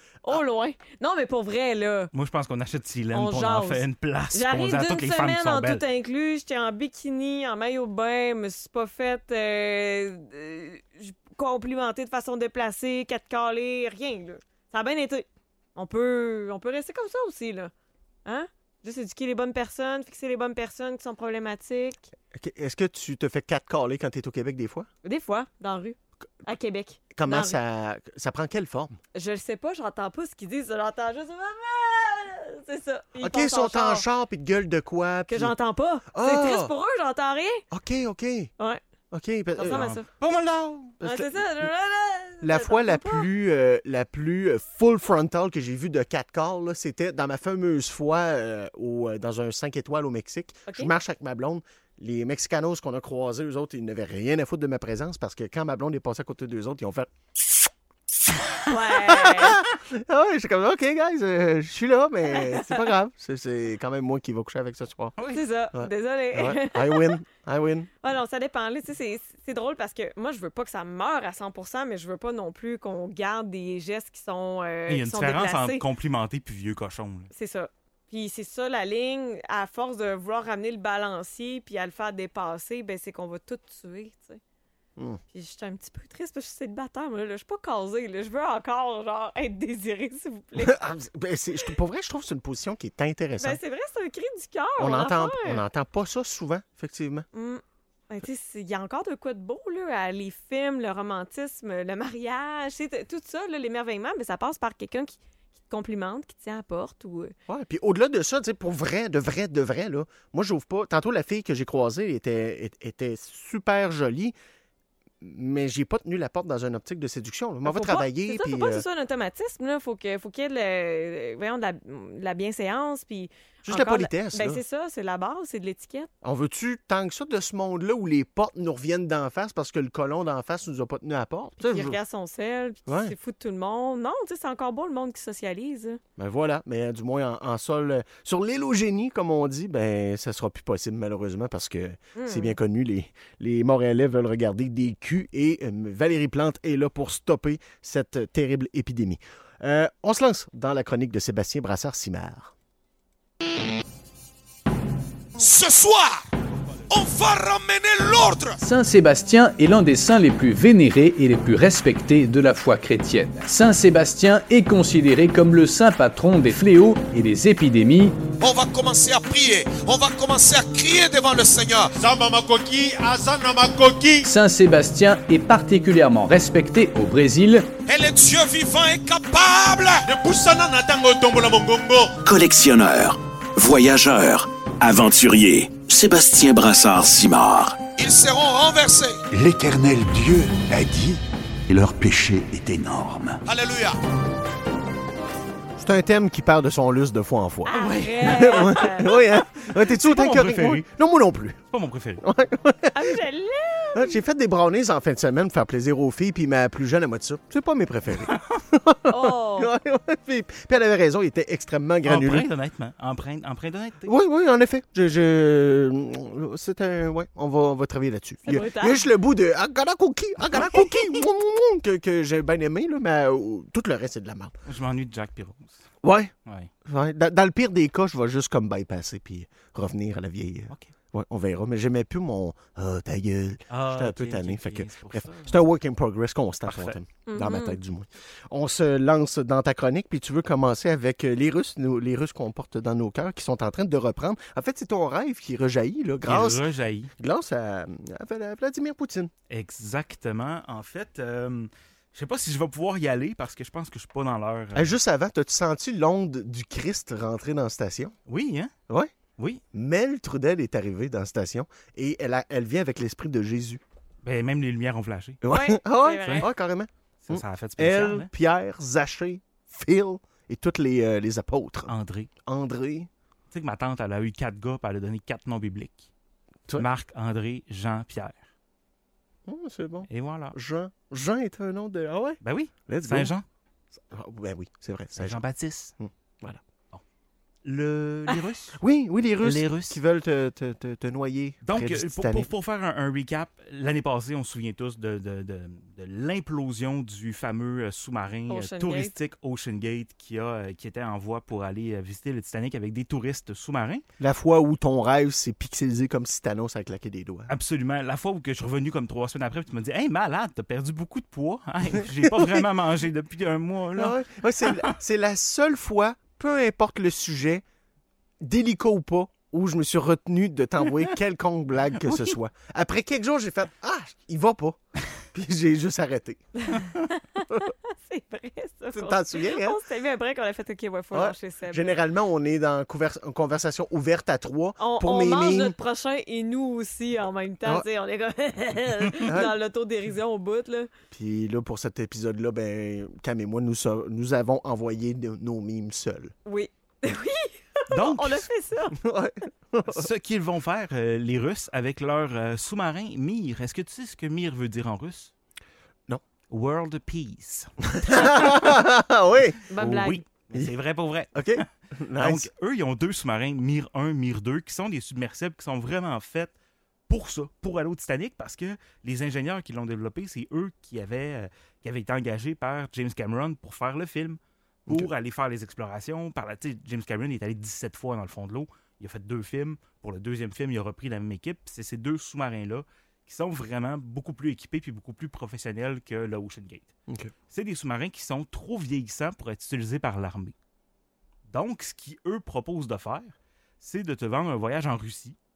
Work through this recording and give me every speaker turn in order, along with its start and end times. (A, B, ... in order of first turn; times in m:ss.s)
0:00.2-0:02.1 A
0:02.1-0:05.8 B
0:03.1-0:17.7 A
0:18.2-0:22.1 A
0:22.3-0:24.9 C
0:25.0-0:27.6 A
0:27.1-0:29.0 C
0:29.2-0:34.0 A
0:33.2-0:35.6 C
0:35.3-0:37.6 A
0:36.1-0:36.7 C
0:37.7-0:38.5 C
0:39.1-0:41.7 C
0:39.6-0:40.1 A
0:39.7-0:40.0 B
0:41.0-0:43.3 A
0:42.4-0:57.1 C
0:58.7-0:59.6 A
0:58.7-1:05.2 C
1:02.3-1:02.9 A
1:05.2-1:05.4 B
1:05.3-1:07.2 A
1:05.7-1:07.9 C
1:08.0-1:15.8 A
1:14.9-1:17.3 B
1:17.3-1:24.4 A
1:25.3-1:30.8 A
1:30.6-1:33.6 C
1:33.4-1:35.6 A
1:34.8-1:37.3 C
1:37.3-1:47.3 A
1:47.5-1:54.4 C
1:55.2-1:58.8 C
1:57.6-2:06.1 A
2:03.6-2:04.6 C
2:06.2-2:12.0 C
2:11.6-2:16.0 A
2:12.9-2:13.2 C
2:16.2-2:32.5 C
2:22.2-2:22.6 A
2:35.4-2:36.3 D
2:36.9-2:38.6 D
2:38.6-2:48.2 E
2:48.4-2:54.3 D
2:54.2-2:57.7 E
2:57.9-3:02.2 D
3:02.2-3:07.9 F
3:08.0-3:09.2 D
3:09.3-3:13.4 G
3:13.5-3:14.0 D
3:15.8-3:21.6 C
3:17.7-3:19.2 A
3:19.9-3:20.9 B
3:21.7-3:22.2 B
3:22.2-3:23.2 C
3:22.9-3:24.2 A
3:23.9-3:32.5 C
3:29.1-3:29.7 A
3:32.0-3:34.1 B
3:34.1-3:44.6 C
3:38.4-3:39.1 A
3:44.7-3:45.9 B
3:46.0-3:46.3 C
3:46.8-4:06.6 C
3:53.7-3:55.6 B
3:56.7-3:57.0 B
3:57.3-3:57.8 A
4:06.2-4:07.1 B
4:07.2-4:09.3 C
4:09.5-4:15.0 B
4:14.8-4:18.2 C
4:18.3-4:18.7 B
4:18.9-4:19.1 C
4:19.7-4:23.8 C
4:24.2-4:25.4 B
4:25.4-4:31.9 C
4:25.5-4:26.5 A
4:26.2-4:26.5 B
4:27.2-4:28.3 B
4:31.9-4:32.3 B
4:32.4-4:33.1 C
4:33.5-4:36.1 B
4:36.8-4:38.5 B
4:39.5-4:43.3 C
4:40.1-4:40.6 B
4:42.4-4:43.4 B
4:43.9-4:45.4 C
4:45.2-4:45.9 B
4:46.0-4:46.6 C
4:47.6-4:48.8 B
4:48.8-4:52.5 C
4:49.4-4:50.0 B
4:51.6-5:04.0 B
4:58.5-4:59.1 A
5:04.2-5:07.5 C
5:07.5-5:14.9 B
5:12.2-5:12.6 C
5:14.0-5:17.6 C
5:18.4-5:24.8 C
5:22.0-5:22.4 B
5:25.3-5:26.5 C
5:26.6-5:32.0 A
5:28.9-5:29.8 C
5:31.1-5:35.8 C
5:34.8-5:40.9 A
5:39.3-5:39.5 C
5:41.1-5:46.3 C
5:46.5-5:49.0 A
5:47.9-5:48.5 B
5:49.0-5:50.1 C
5:49.9-5:55.3 B
5:56.5-5:58.5 B
5:57.9-5:59.6 C
5:59.7-6:00.2 A
5:59.8-6:06.5 B
6:01.4-6:02.5 C
6:07.1-6:26.9 B
6:27.1-6:27.3 C
6:27.5-6:30.6 B
6:31.5-6:35.4 B